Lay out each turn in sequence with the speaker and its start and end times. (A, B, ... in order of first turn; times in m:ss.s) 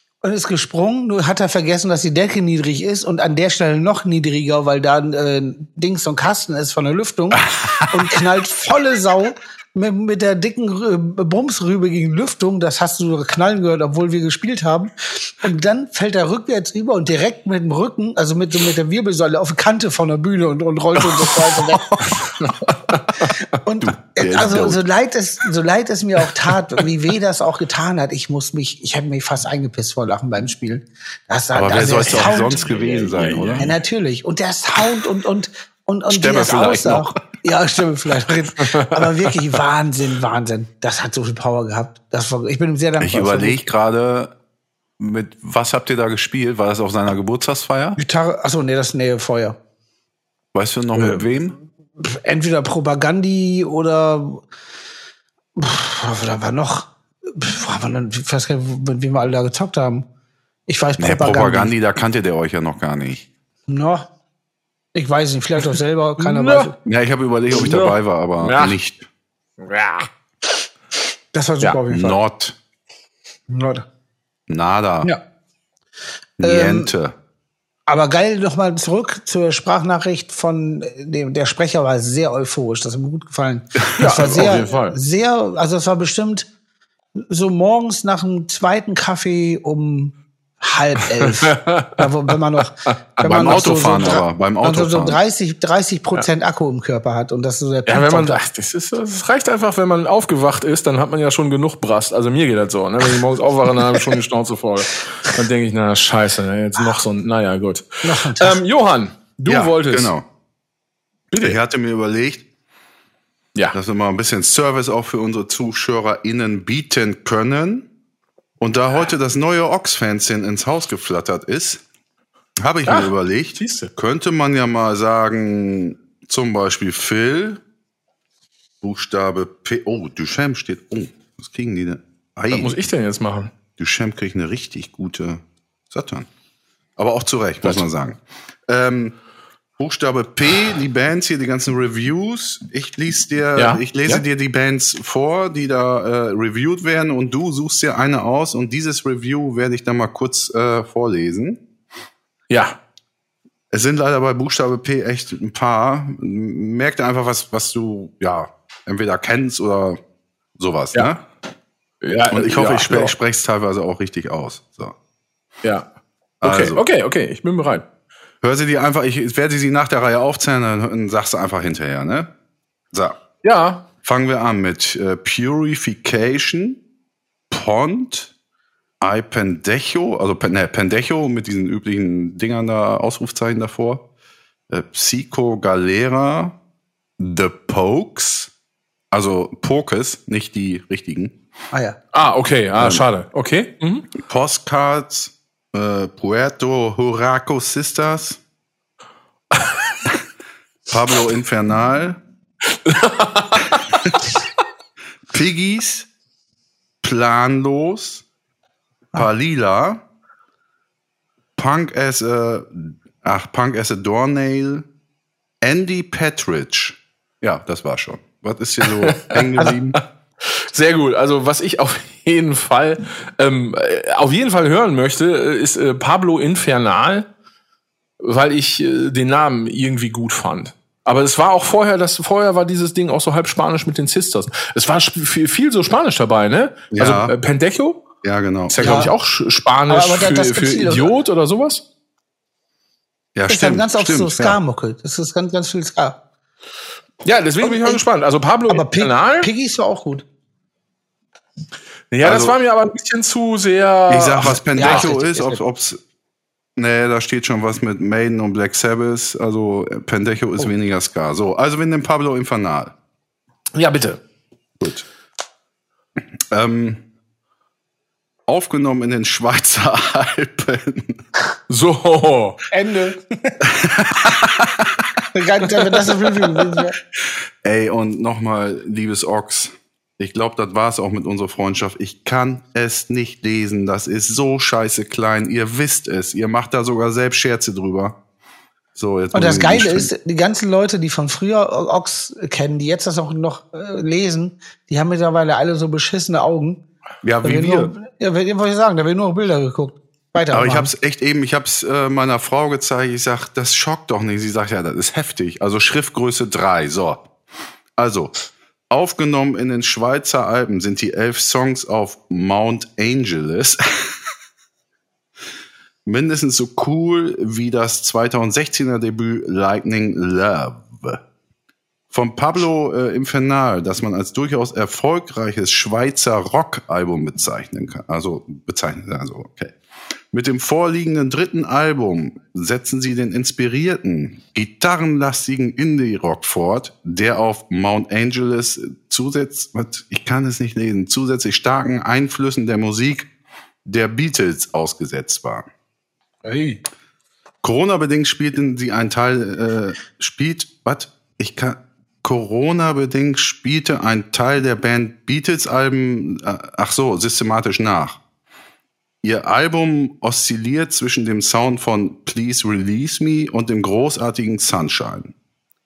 0:00.2-0:21.9 A
0:21.2-0:23.4 B
0:23.5-0:43.6 A
0:23.8-0:24.8 C
0:31.5-0:33.7 C
0:31.9-0:33.7 B
0:36.1-0:37.2 C
0:38.7-0:39.2 B
0:43.0-0:44.3 C
0:45.0-0:48.0 C
0:48.0-0:49.6 A
0:50.5-0:51.6 C
0:52.0-0:54.4 A
0:55.6-1:00.1 A
1:00.7-1:01.7 A
1:01.0-1:03.2 C
1:03.7-1:04.1 A
1:04.9-1:06.8 A
1:06.2-1:06.7 B
1:06.8-1:09.1 C
1:07.5-1:08.8 B
1:09.6-1:10.1 B
1:11.3-1:12.2 A
1:11.9-1:12.6 C
1:13.5-1:13.8 A
1:14.5-1:15.1 C
1:16.4-1:17.2 C
1:16.4-1:16.9 A
1:17.9-1:26.5 A
1:24.0-1:25.0 B
1:27.2-1:38.4 A
1:31.2-1:32.1 B
1:33.2-1:35.2 C
1:37.9-1:50.1 B
1:48.0-1:48.6 A
1:49.5-1:50.2 C
1:51.3-1:51.6 B
1:51.4-1:52.4 C
1:53.7-1:57.9 C
1:58.6-2:01.8 C
2:02.6-2:07.6 C
2:02.9-2:03.9 B
2:08.8-2:12.8 C
2:12.5-2:13.5 B
2:13.8-2:16.3 C
2:17.0-2:19.2 C
2:19.8-2:31.6 C
2:23.6-2:24.2 B
2:32.5-2:32.8 B
2:33.7-2:40.0 C
2:40.6-2:41.2 C
2:42.0-2:43.1 B
2:42.3-2:44.9 C
2:46.4-2:46.8 C
2:46.4-2:47.8 B
2:48.4-2:52.3 C
2:52.9-2:53.2 C
2:53.4-2:53.8 B
2:54.0-2:56.8 C
2:57.5-2:58.3 C
2:59.0-3:04.0 C
3:04.7-3:06.5 C
3:07.2-3:08.5 C
3:09.1-3:11.4 C
3:11.7-3:12.0 A
3:12.1-3:14.1 B
3:12.8-3:13.0 C
3:14.2-3:18.4 C
3:20.9-3:22.2 C
3:22.8-3:24.2 B
3:25.3-3:26.1 C
3:27.0-3:28.2 C
3:29.1-3:30.0 C
3:31.6-3:34.9 C
3:35.6-3:40.0 C
3:39.0-3:47.3 B
3:48.2-3:58.0 B
3:56.9-3:57.3 C
3:58.2-3:58.9 C
3:58.7-4:01.8 B
3:58.8-3:59.1 A
3:59.9-4:01.1 A
4:03.4-4:04.6 C
4:03.5-4:06.2 A
4:07.2-4:09.5 B
4:07.6-4:08.0 A
4:08.7-4:10.2 A
4:12.1-4:15.1 B
4:12.2-4:12.6 C
4:14.1-4:16.0 C
4:14.7-4:15.6 A
4:16.8-4:22.9 C
4:23.8-4:24.2 B
4:24.8-4:25.0 C
4:26.5-4:27.0 C
4:28.5-4:31.2 C
4:31.7-4:32.6 B
4:32.7-4:33.6 A
4:33.6-4:34.9 C
4:35.3-4:37.0 A
4:37.6-4:48.2 C
4:49.0-4:50.1 C
4:49.3-4:56.8 A
4:57.2-4:57.9 C
4:57.4-5:00.9 A
5:00.5-5:07.2 C
5:08.0-5:08.3 C
5:08.9-5:14.1 C
5:16.1-5:21.2 C
5:22.1-5:29.8 C
5:30.3-5:43.3 C
5:43.8-5:45.7 C
5:46.4-5:46.8 A
5:47.6-5:58.2 C
5:59.2-6:05.3 C